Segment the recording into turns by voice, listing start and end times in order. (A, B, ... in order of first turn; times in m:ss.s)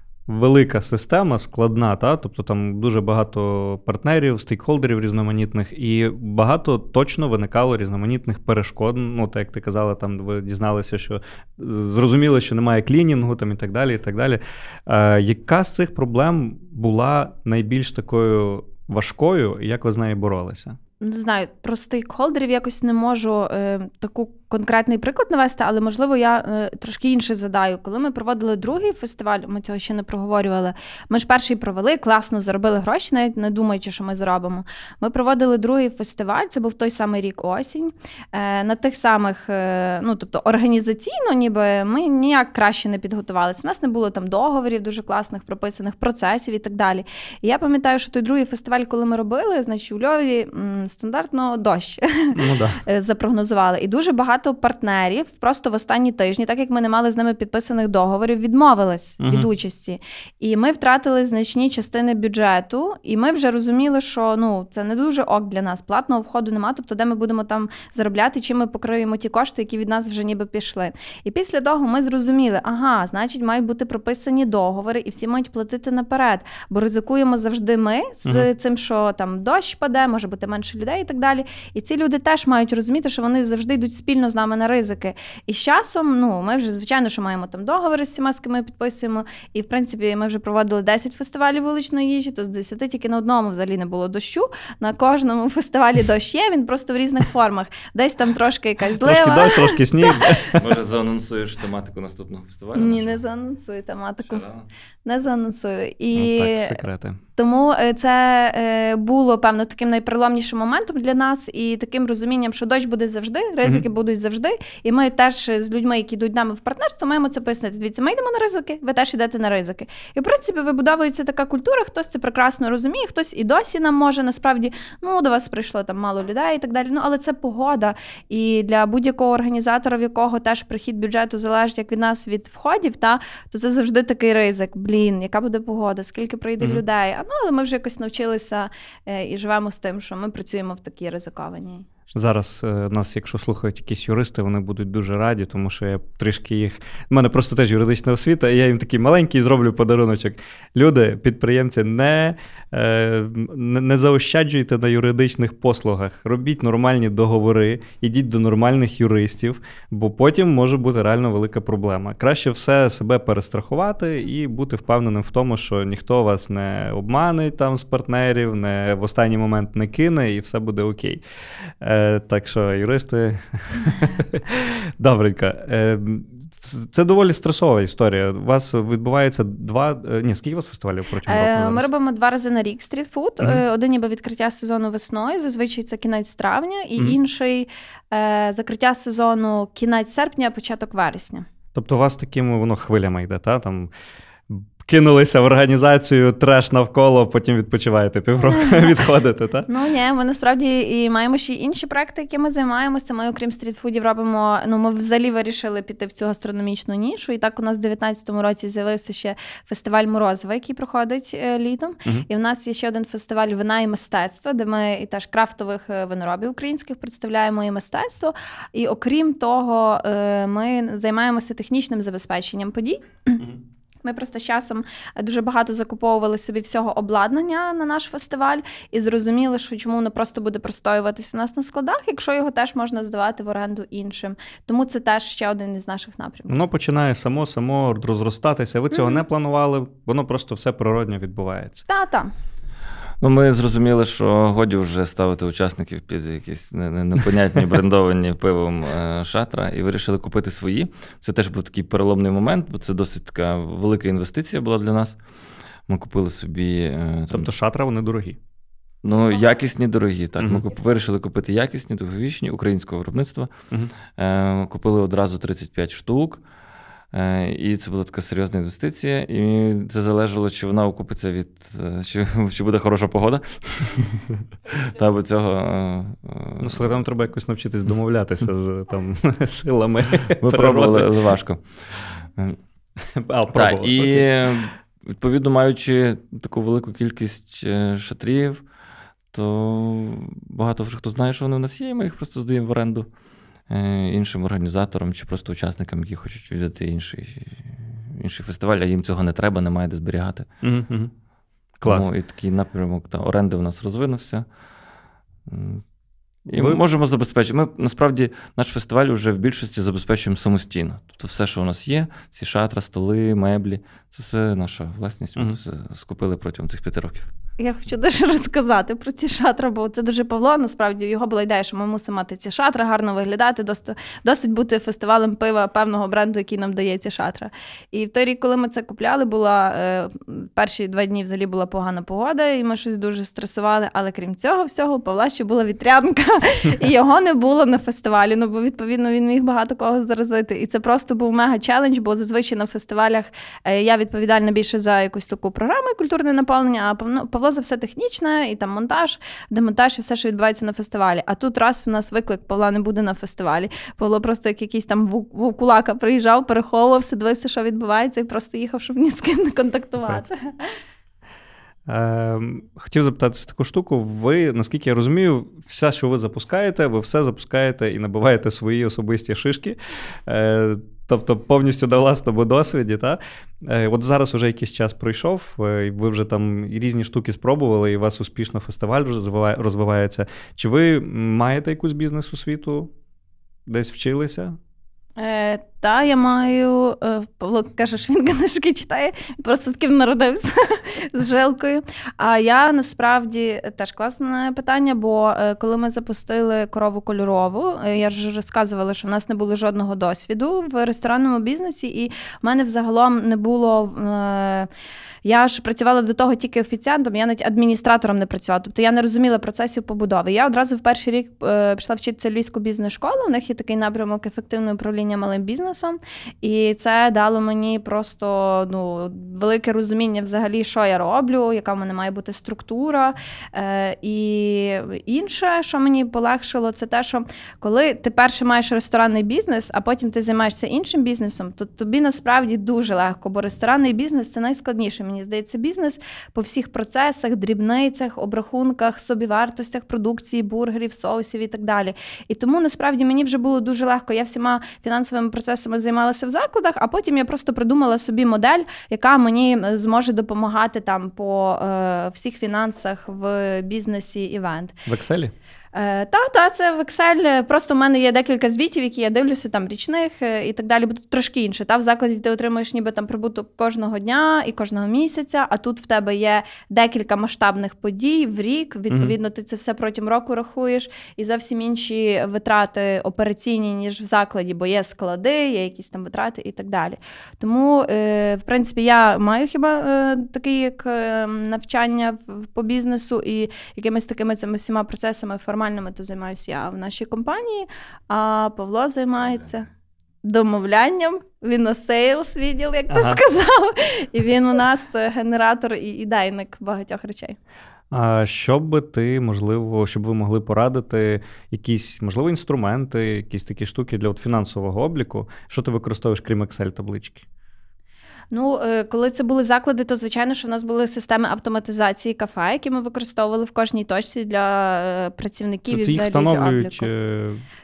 0:00.3-0:20.8 A
0:21.0-1:40.4 B
0:52.4-0:52.8 A
0:59.2-0:59.5 A
1:39.0-1:40.6 A
1:40.5-1:43.2 C
1:42.7-1:44.4 B
1:44.2-1:44.7 C
1:45.1-1:46.7 B
1:46.2-1:47.2 A
1:47.4-2:22.1 B
2:22.1-2:51.2 A
2:51.8-3:01.9 A
3:01.3-3:11.5 B
3:11.8-3:13.9 A
3:14.5-3:19.7 A
3:18.4-3:19.1 B
3:19.7-3:43.5 B
3:44.0-3:56.6 B
3:56.5-4:01.8 A
3:58.9-3:59.2 B
4:01.9-4:02.3 B
4:03.2-4:15.2 C
4:15.9-4:17.5 C
4:17.3-4:18.4 A
4:19.0-4:23.5 C
4:20.4-4:20.7 A
4:24.2-4:26.4 C
4:27.1-4:37.0 C
4:36.6-4:41.2 A
4:40.4-4:42.6 C
4:43.1-4:44.3 A
4:43.5-4:48.6 C
4:49.3-4:53.1 C
4:53.7-5:00.5 C
5:00.6-5:01.1 A
5:01.8-5:02.1 A
5:01.8-5:04.5 C
5:05.5-5:05.8 C
5:06.5-5:17.3 C
5:06.5-5:06.8 A
5:17.6-6:00.7 B
6:01.9-6:22.9 A
6:23.7-6:24.6 A
6:25.2-6:44.7 B
6:45.2-7:34.8 B
7:34.9-7:35.3 A
7:35.7-8:09.7 B
7:48.9-7:49.2 A
8:10.2-8:17.4 B
8:12.9-8:13.2 A
8:17.9-8:27.2 A
8:28.3-8:36.9 B
8:35.7-8:37.4 A